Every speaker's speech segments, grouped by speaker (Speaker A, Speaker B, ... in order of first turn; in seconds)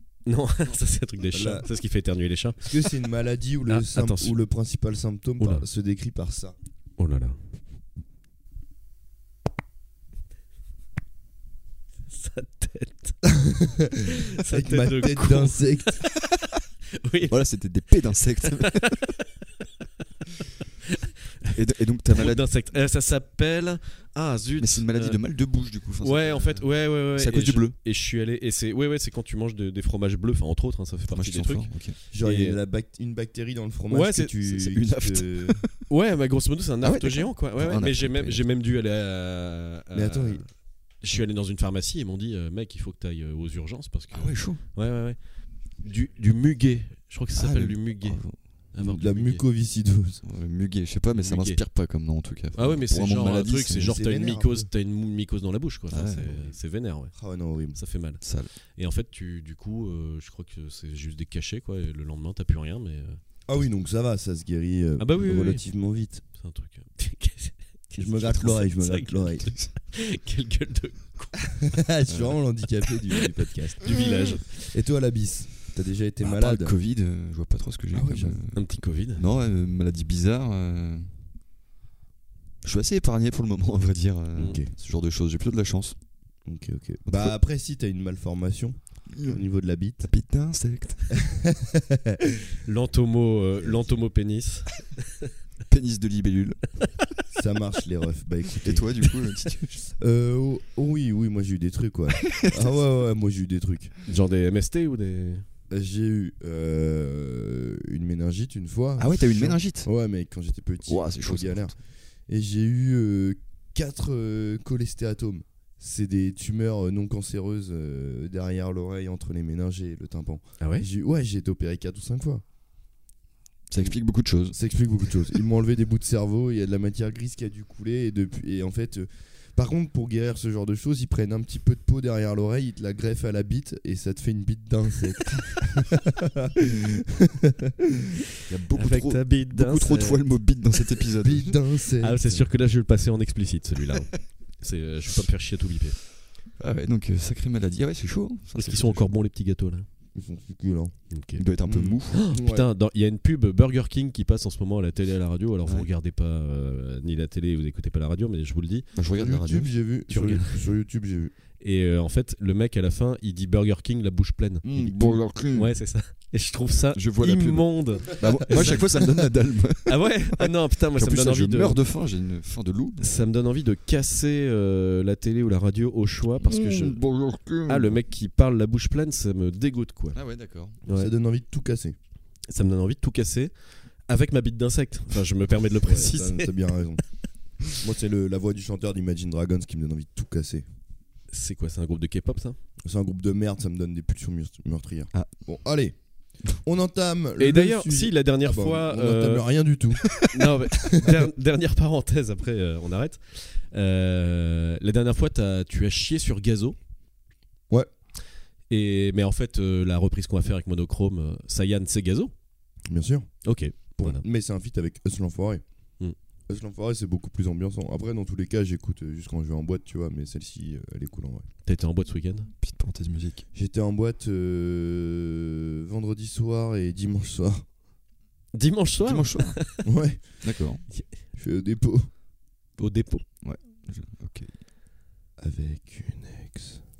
Speaker A: 0.2-2.9, 3.7-4.4, 5.4-5.6, 7.0-7.4, 12.1-13.2, 14.0-15.6, 17.0-17.4, 18.6-19.2, 22.1-25.2, 26.0-32.6, 33.9-34.3, 35.9-40.4, 41.0-45.2, 45.8-48.2, 48.7-49.4, 51.1-51.6, 52.5-57.1, 57.7-58.2, 58.8-63.2, 65.0-65.6, 66.3-71.7, 73.8-74.7, 78.5-79.2, 92.7-94.9, 104.1-105.4, 120.6-120.8, 138.7-140.3, 142.0-146.0, 148.5-149.8, 151.1-151.4, 152.1-158.9, 160.1-160.6, 161.6-169.0, 169.8-171.8, 173.0-177.0, 177.7-180.2, 180.8-181.1, 182.5-183.5, 184.1-186.5, 191.3-192.6, 197.4-199.4, 200.3-206.8, 208.7-212.3, 213.4-214.2, 221.7-222.5, 228.5-229.8, 232.8-233.2
Speaker B: 1.3-1.7, 2.6-6.5, 13.2-16.0, 32.1-35.6, 39.9-40.4, 48.8-50.2, 53.8-54.7, 57.1-57.8, 63.5-66.2, 68.0-69.5, 71.6-76.7, 77.9-78.4, 84.3-84.7, 86.5-90.1, 91.2-92.4, 97.3-99.1, 100.0-103.9, 105.7-122.4, 124.5-138.1, 141.2-142.4, 150.2-151.0, 151.6-152.7, 159.1-161.3, 168.6-168.8, 180.9-181.9, 185.8-187.0, 187.7-190.6, 192.8-195.9, 196.6-200.2, 212.9-213.4, 213.9-215.6, 216.5-221.5, 223.5-227.6, 229.8-230.2, 231.4-232.1, 235.4-236.8
Speaker C: 17.3-19.0, 21.5-22.4, 24.6-27.8, 31.1-32.0, 34.4-35.8, 36.8-38.5, 44.1-44.6, 47.3-48.4, 50.2-53.9, 55.9-56.5, 58.2-58.5, 72.1-72.4, 76.2-81.1, 82.6-86.0, 87.1-87.3, 89.1-89.4, 90.0-91.2, 95.7-96.6, 98.6-99.9, 102.2-102.7, 109.0-109.9, 110.9-111.7, 123.7-124.6, 138.5-141.6, 146.6-149.1, 151.4-152.2, 158.9-159.7, 164.6-165.7, 166.9-173.2, 176.4-178.0, 180.1-180.8, 222.6-223.4, 229.0-229.6, 230.4-230.8, 233.4-234.5